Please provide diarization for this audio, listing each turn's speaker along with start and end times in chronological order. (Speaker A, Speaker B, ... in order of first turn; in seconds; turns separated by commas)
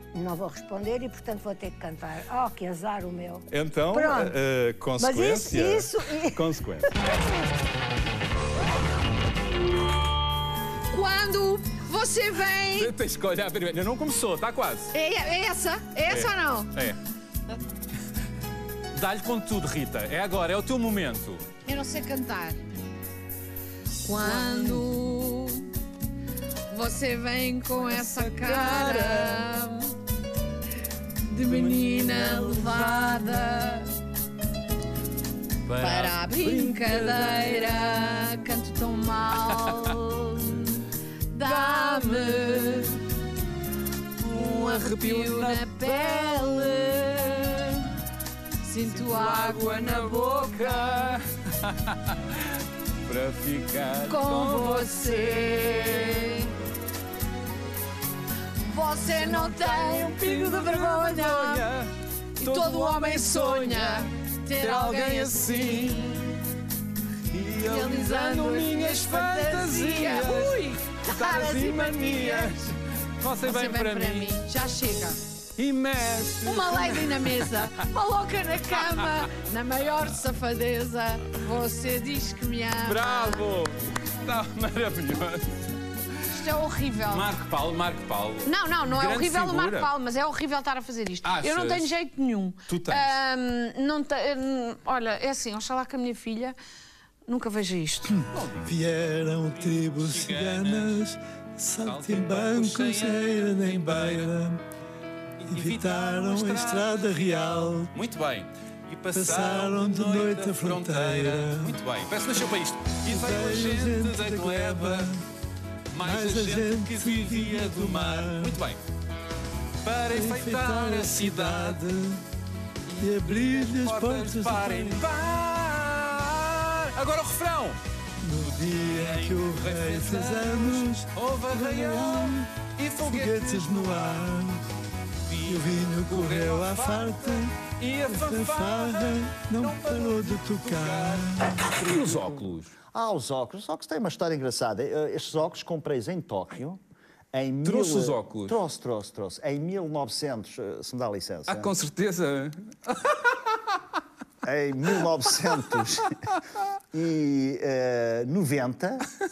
Speaker A: 0.1-4.3, Speaker B: 3.5-6.9, Speaker A: 5.0-6.4, Speaker C: 10.9-12.9, Speaker B: 12.8-14.9, Speaker C: 14.9-16.7, Speaker B: 16.1-17.0, Speaker B: 18.9-21.5, Speaker C: 21.6-22.6, Speaker C: 24.0-25.7, Speaker C: 26.7-29.9, Speaker B: 27.9-29.3, Speaker C: 31.3-33.9, Speaker B: 31.8-32.8, Speaker B: 35.7-37.7, Speaker C: 35.8-40.7, Speaker C: 41.3-43.0, Speaker B: 44.2-46.9, Speaker C: 44.3-47.8, Speaker C: 48.6-51.2, Speaker B: 48.8-52.4, Speaker B: 53.0-56.3, Speaker C: 54.0-56.5, Speaker C: 58.6-61.7, Speaker B: 59.2-61.9, Speaker C: 62.4-66.2, Speaker B: 62.4-66.0, Speaker B: 67.3-74.4, Speaker C: 67.5-72.7, Speaker C: 73.4-75.2, Speaker B: 75.6-77.8, Speaker C: 76.4-83.5, Speaker B: 78.7-79.3, Speaker B: 82.8-85.5, Speaker C: 86.3-87.3, Speaker B: 87.1-89.9, Speaker C: 88.4-96.5, Speaker B: 91.2-92.0, Speaker B: 92.7-93.1, Speaker C: 97.3-98.2, Speaker B: 98.3-98.7, Speaker D: 98.6-104.6, Speaker B: 99.5-101.0, Speaker B: 101.8-104.3, Speaker B: 105.4-115.1, Speaker D: 105.5-107.9, Speaker D: 109.1-111.8, Speaker D: 113.0-115.2, Speaker B: 115.9-118.8, Speaker D: 116.0-118.6, Speaker B: 119.8-121.8, Speaker D: 120.1-122.2, Speaker B: 122.9-127.8, Speaker D: 123.0-125.0, Speaker D: 128.2-132.5, Speaker B: 128.5-134.2, Speaker D: 133.0-134.7, Speaker B: 135.3-142.7, Speaker D: 135.4-141.6, Speaker E: 142.9-146.8, Speaker E: 147.3-151.7, Speaker B: 147.6-148.6, Speaker B: 151.5-153.2, Speaker E: 154.4-156.1, Speaker E: 156.9-159.1